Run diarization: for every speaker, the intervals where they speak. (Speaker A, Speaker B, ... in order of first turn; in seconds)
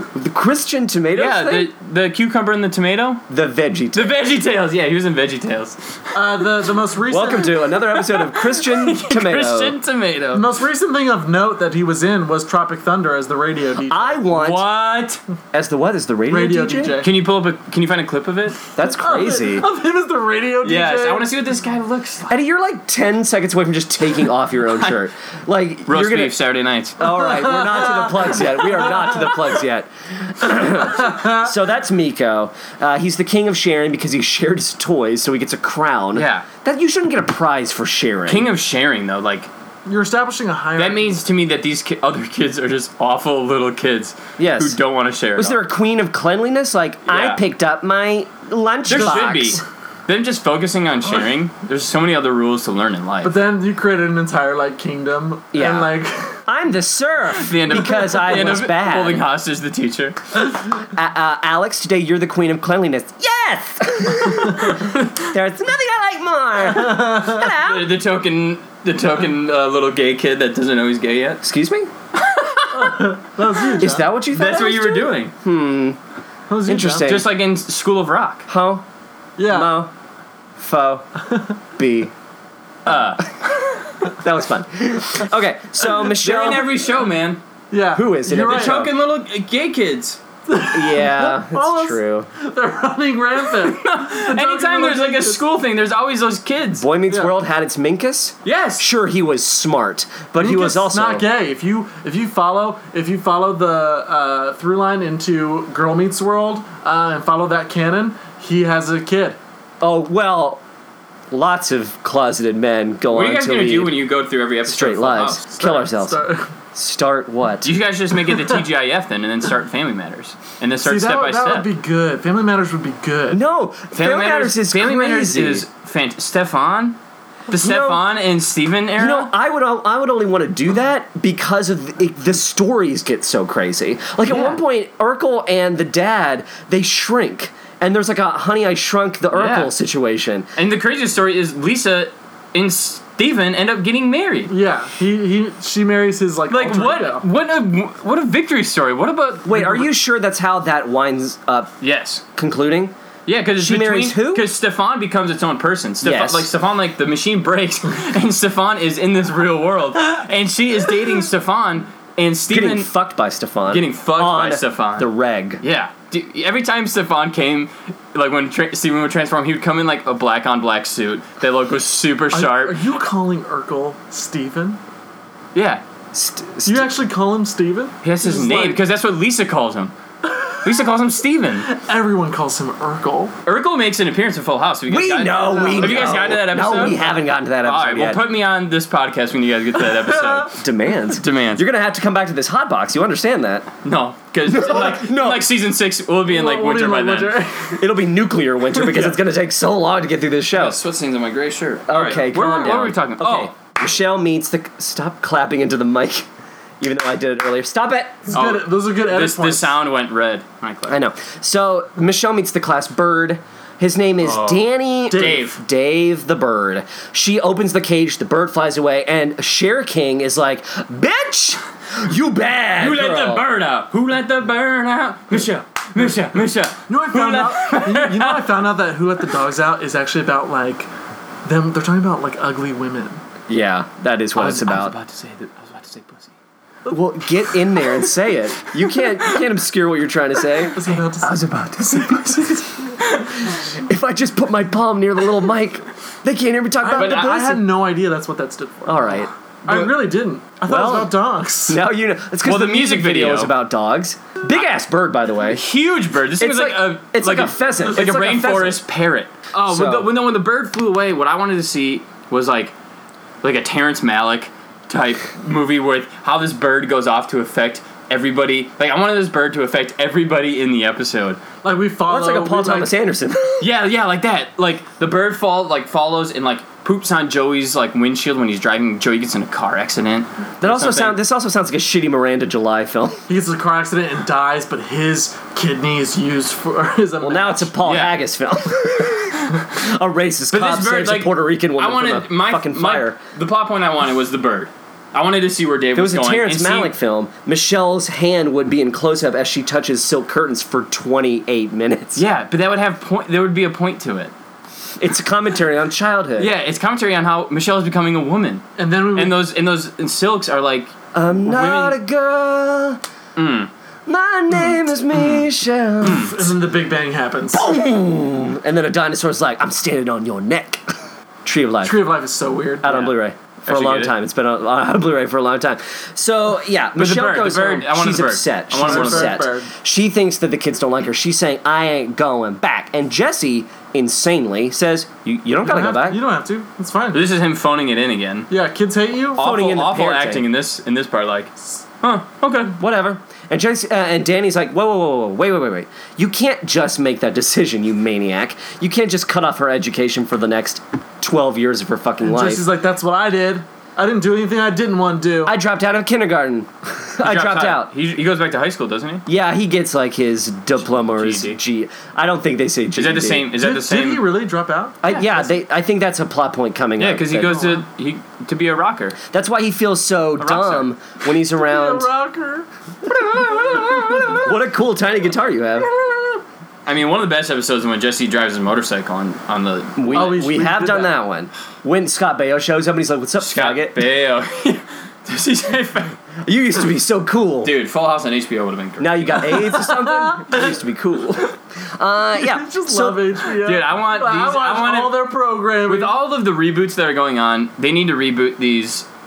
Speaker A: 0.1-1.7, 3.3-4.2, 7.1-9.8, 13.9-14.6, 15.5-17.0, 18.7-19.6, 22.3-26.4, 27.0-38.5, 44.4-44.8, 45.4-49.6, 55.5-55.9, 56.5-59.2, 60.8-67.9, 71.4-71.9, 73.8-76.0, 76.7-77.3, 78.5-78.8, 79.5-79.9, 80.6-81.0, 81.8-82.1, 82.8-83.1, 84.0-86.7, 87.9-88.9, 90.7-92.3, 96.8-101.2, 109.8-110.6, 111.3-114.0, 114.6-117.7, 123.3-125.7, 127.5-128.0, 128.9-140.5, 149.4-151.7, 152.3-152.9, 153.6-154.5, 156.0-156.5, 162.5-165.6, 176.1-176.9, 184.9-188.2, 190.5-193.7, 194.5-195.5, 197.8-200.8, 201.9-206.2, 206.8-208.3, 210.9-223.4, 233.5-234.9, 236.9-247.7, 248.8-249.9, 250.7-251.1, 251.7-255.6, 256.4-258.8, 259.6-260.1, 272.1-273.7, 280.6-283.2, 287.2-293.2, 295.9-302.2, 305.0-306.5, 311.1-313.0, 314.1-316.4, 317.5-320.8, 321.4-322.0, 322.8-336.2, 339.4-340.4, 342.8-352.6, 355.4-357.9, 359.2-363.5, 365.0-367.6, 369.3-372.1, 373.0-375.9, 380.0-384.0, 386.4-387.7, 389.0-393.2
Speaker B: 1.1-3.2, 3.9-6.1, 7.9-10.4, 14.3-15.2, 17.0-18.6, 20.6-22.3, 25.9-27.1, 36.1-36.5, 38.3-39.5, 40.8-45.6, 47.1-47.4, 48.9-53.3, 57.3-60.2, 67.4-71.4, 72.1-73.1, 74.3-75.3, 77.0-78.4, 82.8-83.2, 86.0-87.4, 88.3-90.2, 93.6-96.8, 98.4-98.8, 113.1-115.4, 117.6-121.7, 123.9-127.0, 127.5-129.3, 134.3-134.6, 139.3-139.7, 140.6-144.5, 146.5-149.9, 151.8-152.2, 153.2-162.9, 163.7-165.1, 165.6-172.8, 175.5-175.8, 178.0-179.9, 180.6-181.7, 183.4-187.1, 187.6-190.5, 191.1-191.6, 193.8-197.4, 200.5-203.5, 208.3-211.0, 214.2-215.6, 222.8-228.4, 234.3-236.3, 246.9-247.3, 252.4-253.5, 255.5-262.7, 263.4-271.4, 273.6-281.2, 287.8-288.1, 290.5-296.9, 302.1-304.3, 306.4-310.9, 311.4-312.0, 313.4-313.7, 315.1-315.4, 316.0-316.3, 323.7-324.1, 326.9-329.4, 337.1-338.5, 339.4-342.7, 357.2-359.2, 360.8-361.6, 362.9-364.2, 367.0-369.2, 370.4-370.9, 376.9-380.4, 383.4-386.2, 387.6-389.6, 393.6-395.2, 395.8-399.1
Speaker C: 6.1-7.7, 10.3-14.2, 16.3-17.1, 18.9-21.3, 27.1-29.2, 30.9-31.5, 39.9-41.2, 53.2-56.4, 66.9-67.3, 72.7-74.1, 76.5-77.2, 79.4-79.7, 87.7-88.9, 90.5-95.4, 100.4-109.4, 115.5-116.5, 120.8-123.4, 144.5-147.2, 172.3-174.8, 176.7-178.8, 181.6-183.3, 185.5-186.1, 190.0-190.4, 196.3-197.9, 198.7-199.2, 208.3-209.8, 215.1-215.4, 226.0-226.3, 226.9-230.9, 231.4-233.2, 240.7-241.4, 246.8-251.8, 271.6-272.9, 283.3-287.7, 308.8-309.4, 316.0-317.6, 321.8-323.1, 328.8-329.7, 335.6-337.2, 338.5-339.4, 352.2-355.5, 363.6-365.4, 367.5-367.8, 371.6-372.7, 380.1-381.1, 389.9-390.6, 392.4-396.1